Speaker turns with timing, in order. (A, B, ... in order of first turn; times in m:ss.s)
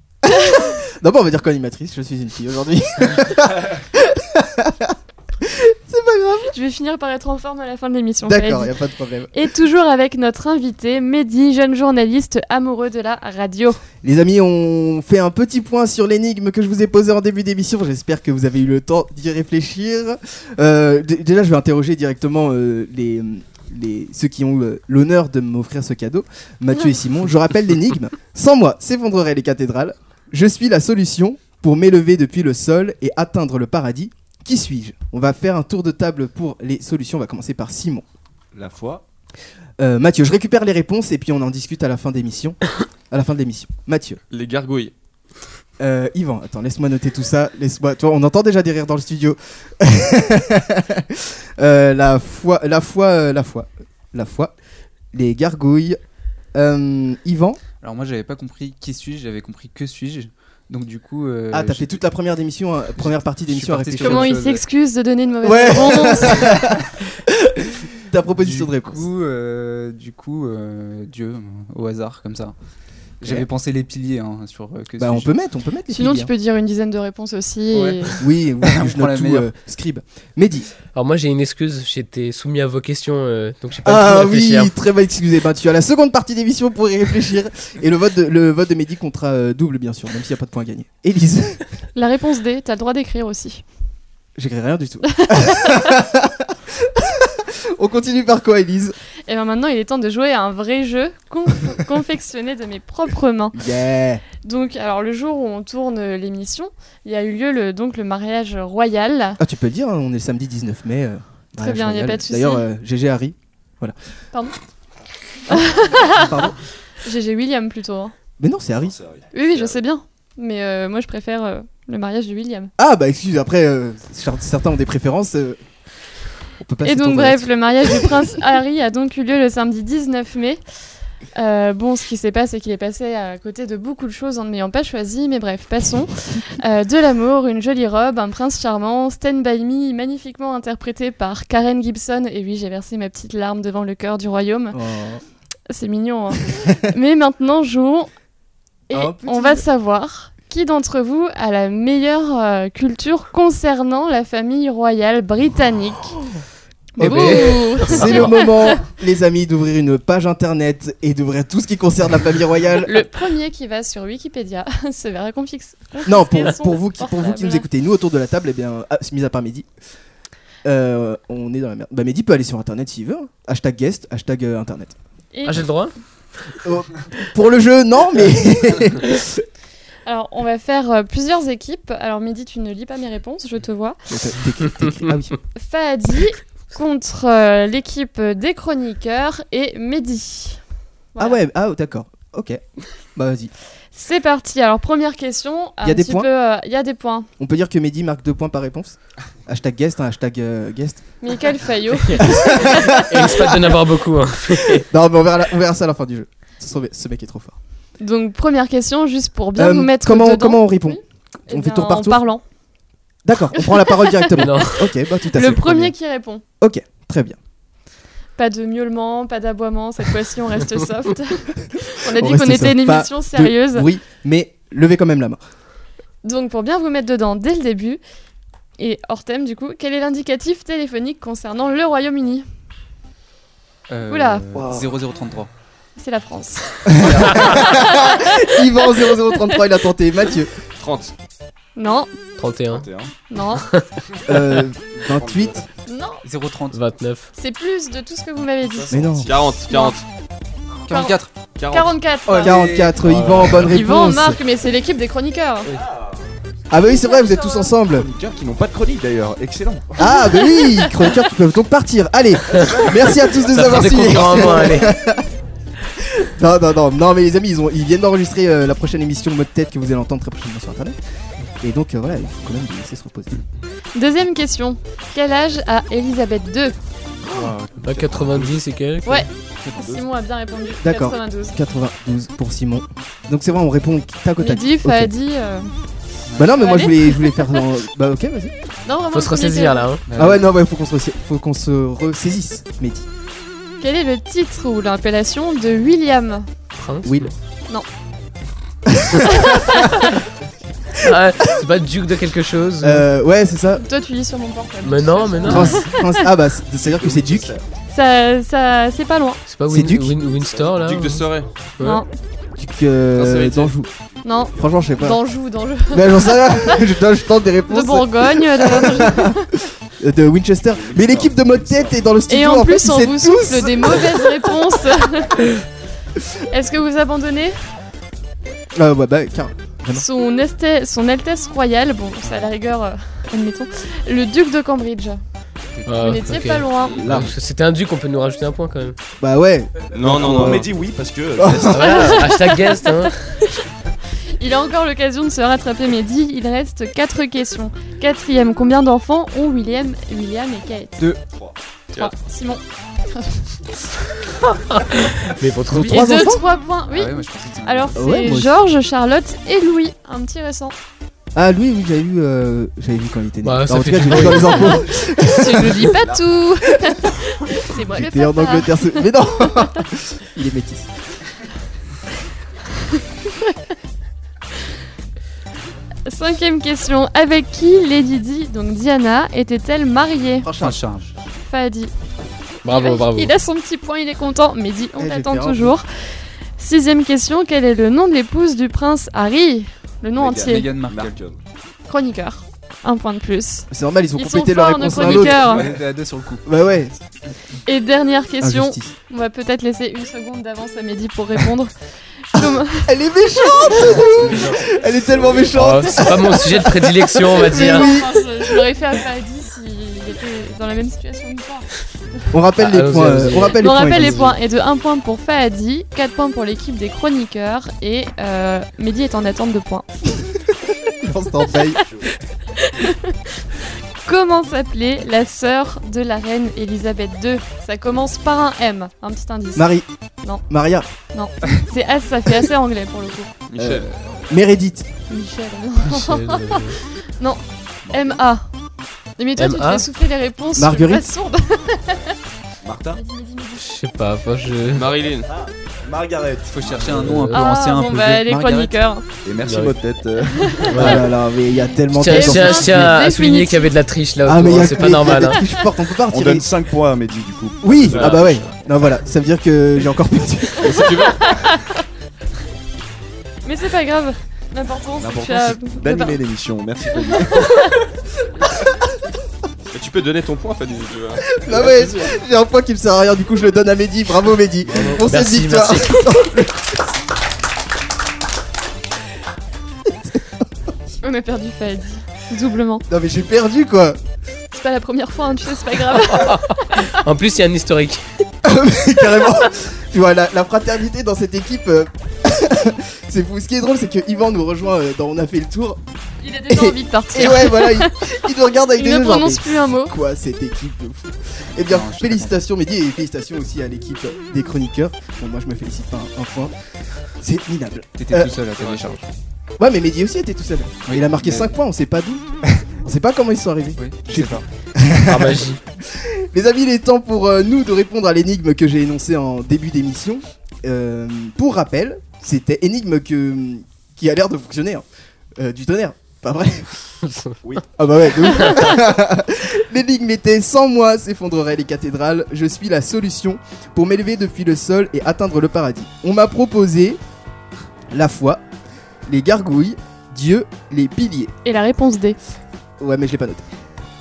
0:00.2-0:06.5 A
0:06.5-0:08.7 B
0:08.2-0:09.4 A
0:09.3-0:13.8 B
0:14.0-0:38.0 A
0:38.5-0:39.0 C
0:39.8-0:44.2 A
0:44.3-0:44.9 D
0:45.8-0:54.5 A
0:55.1-0:56.0 A
0:56.5-0:57.6 A
0:57.8-1:02.0 E
1:01.5-1:04.3 A
1:03.5-1:04.6 E
1:04.0-1:06.5 B
1:05.4-1:09.0 A
1:06.3-1:06.7 E
1:08.4-1:12.6 E
1:13.2-1:15.3 E
1:15.0-1:16.3 A
1:15.9-1:18.2 B
1:17.7-1:19.5 E
1:18.2-1:20.7 A
1:20.9-1:24.7 F
1:23.8-1:31.6 A
1:32.0-1:33.6 B
1:34.4-1:39.0 A
1:35.2-1:35.7 B
1:39.3-1:43.6 B
1:43.6-1:44.2 A
1:44.4-1:49.4 B
1:49.4-1:54.0 A
1:51.6-1:52.7 B
1:55.5-1:56.4 B
1:55.5-1:56.6 A
1:57.0-1:58.1 B
1:58.4-1:59.0 A
1:58.8-1:59.8 C
1:59.3-2:02.7 B
2:02.8-2:05.6 A
2:06.6-2:08.3 A
2:06.8-2:10.6 B
2:11.4-2:24.8 B
2:24.7-2:25.2 A
2:25.7-2:28.1 B
2:28.9-2:36.2 B
2:28.9-2:29.6 A
2:37.0-2:43.0 A
2:37.0-2:38.8 B
2:37.0-2:38.3 F
2:42.8-2:47.6 B
2:46.0-2:49.7 A
2:50.6-2:55.0 A
2:55.3-2:55.6 B
2:55.5-2:55.9 F
2:56.6-2:59.4 A
3:00.1-3:04.0 B
3:04.1-3:05.4 A
3:05.6-3:10.6 B
3:11.2-3:11.4 B
3:11.2-3:12.6 A
3:13.1-3:13.5 A
3:13.9-3:17.3 B
3:15.8-3:16.3 A
3:17.4-3:21.1 A
3:21.2-3:23.0 B
3:22.2-3:23.8 A
3:22.9-3:24.9 F
3:24.6-3:27.6 A
3:28.0-3:32.4 B
3:29.6-3:32.2 A
3:33.2-3:36.0 A
3:33.6-3:34.7 B
3:34.4-3:34.8 F
3:35.3-3:36.4 B
3:36.6-3:37.4 A
3:38.4-3:43.9 B
3:42.1-3:45.4 A
3:46.2-3:48.0 B
3:48.8-3:52.5 B
3:53.9-3:55.5 E
3:54.1-3:54.4 B
3:54.6-3:54.8 A
3:56.0-3:58.5 B
3:56.9-4:00.5 A
3:57.0-3:57.4 E
3:59.0-3:59.6 B
4:00.8-4:01.1 D
4:01.8-4:02.1 B
4:02.4-4:02.9 F
4:02.7-4:03.1 C
4:03.3-4:03.7 B
4:04.3-4:05.6 A
4:05.0-4:05.7 C
4:05.9-4:06.2 B
4:06.2-4:06.8 E
4:06.7-4:07.3 F
4:07.4-4:09.1 B
4:08.6-4:09.3 C
4:08.9-4:09.3 A
4:09.2-4:10.1 D
4:09.7-4:10.0 B
4:10.8-4:11.3 E
4:10.9-4:11.2 B
4:11.6-4:12.0 D
4:11.7-4:12.6 B
4:12.3-4:13.5 E
4:12.4-4:14.4 A
4:13.0-4:13.7 F
4:13.6-4:15.7 B
4:15.7-4:16.2 C
4:16.7-4:18.1 A
4:16.8-4:17.8 B
4:17.9-4:20.0 C
4:20.0-4:25.2 A
4:20.0-4:21.0 B
4:22.5-4:23.4 C
4:23.4-4:24.9 F
4:26.0-4:31.0 A
4:31.6-4:33.4 A
4:34.0-4:36.8 B
4:37.3-4:37.7 E
4:37.8-4:38.6 C
4:37.8-4:39.3 F
4:39.0-4:41.6 B
4:39.6-4:40.1 C
4:40.8-4:45.1 A
4:44.4-4:45.7 B
4:46.3-4:46.5 E
4:46.4-4:48.5 A
4:46.6-4:47.6 B
4:48.9-4:49.9 B
4:49.1-4:50.0 F
4:50.1-4:50.4 E
4:50.2-4:53.1 A
4:53.8-4:56.5 B
4:56.8-4:57.3 F
4:57.0-4:57.3 A
4:58.9-4:59.8 A
4:59.3-5:00.2 B
5:01.0-5:03.1 F
5:02.8-5:03.8 A
5:03.8-5:06.2 B
5:04.8-5:05.8 F
5:05.4-5:07.5 A
5:06.8-5:07.7 C
5:07.9-5:09.4 B
5:09.5-5:11.3 F
5:09.7-5:10.2 A
5:10.3-5:11.2 C
5:10.8-5:11.5 D
5:11.8-5:12.1 B
5:12.6-5:13.9 A
5:13.2-5:13.8 D
5:14.2-5:16.8 B
5:14.4-5:14.9 C
5:14.6-5:15.2 A
5:15.9-5:19.3 A
5:17.7-5:19.5 B
5:20.0-5:24.5 A
5:20.7-5:22.0 C
5:22.3-5:25.4 B
5:26.5-5:27.6 B
5:28.8-5:30.0 A
5:30.0-5:35.2 B
5:35.7-5:36.3 E
5:35.9-5:39.0 F
5:36.0-5:37.0 B
5:37.0-5:37.3 A
5:39.2-5:40.7 A
5:39.9-5:42.2 C
5:39.9-5:40.7 D
5:41.4-5:42.1 A
5:41.7-5:43.2 F
5:41.8-5:43.6 B
5:44.4-5:51.0 B
5:52.0-5:53.6 B
5:54.7-5:56.3 F
5:55.7-5:56.4 A
5:55.8-6:00.8 B
5:56.9-5:58.0 E
5:58.0-5:58.5 A
6:01.4-6:05.9 A
6:03.4-6:04.8 F
6:04.5-6:09.1 B
6:05.8-6:06.3 C
6:07.8-6:10.9 A
6:16.1-6:20.5 B
6:20.4-6:20.8 A
6:20.6-6:21.1 E
6:21.4-6:21.9 B
6:22.6-6:23.3 F
6:22.7-6:25.9 B
6:25.0-6:25.8 A
6:26.6-6:30.7 B
6:30.2-6:31.4 C
6:30.4-6:31.2 E
6:31.9-6:35.6 B
6:33.7-6:35.7 A
6:35.0-6:36.4 E
6:36.5-6:37.0 A
6:37.7-6:44.2 B
6:38.4-6:38.9 A
6:42.4-6:48.6 A
6:43.8-6:44.6 F
6:44.4-6:46.2 C
6:45.5-6:47.9 F
6:47.4-6:51.7 B
6:52.3-6:54.4 A
6:52.6-6:54.2 F
6:53.6-7:00.2 B
7:01.0-7:01.8 A
7:01.8-7:02.2 C
7:02.6-7:03.2 B
7:04.1-7:09.7 B
7:09.6-7:09.9 A
7:10.5-7:10.9 A
7:11.1-7:13.3 B
7:13.5-7:13.9 D
7:13.6-7:14.9 A
7:15.1-7:18.5 B
7:15.9-7:16.8 F
7:17.9-7:18.2 C
7:19.2-7:22.1 B
7:19.4-7:19.9 F
7:20.6-7:21.0 A
7:22.6-7:23.0 C
7:23.0-7:23.6 B
7:23.6-7:25.0 F
7:24.7-7:25.3 D
7:25.3-7:27.2 C
7:26.5-7:28.8 E
7:26.8-7:27.4 F
7:27.3-7:29.0 B
7:29.2-7:30.7 C
7:29.4-7:29.8 F
7:30.5-7:31.0 B
7:30.6-7:31.1 F
7:30.8-7:33.0 A
7:31.9-7:35.4 F
7:32.0-7:33.7 B
7:34.2-7:36.5 A
7:36.1-7:38.5 C
7:37.6-7:41.1 A
7:37.9-7:38.4 F
7:40.6-7:41.4 D
7:40.9-7:41.8 B
7:43.4-7:46.2 B
7:45.0-7:47.8 C
7:47.0-7:47.7 B
7:49.7-7:51.8 D
7:51.3-7:56.7 A
7:55.0-7:56.2 F
8:01.0-8:02.8 B
8:02.9-8:04.0 A
8:04.5-8:06.9 B
8:06.0-8:08.0 F
8:08.4-8:15.8 A
8:16.2-8:17.9 B
8:16.5-8:26.5 A
8:18.8-8:19.9 B
8:21.6-8:22.5 E
8:27.2-8:28.3 A
8:28.0-8:29.1 E
8:28.6-8:28.9 D
8:29.6-8:44.8 A
8:30.9-8:31.5 E
8:33.8-8:34.4 E
8:35.1-8:35.6 F
8:45.4-8:46.7 A
8:47.1-8:47.4 F
8:47.8-8:57.0 A
8:57.9-8:58.4 A
8:59.1-9:01.3 A
9:01.4-9:02.2 B
9:02.8-9:03.5 A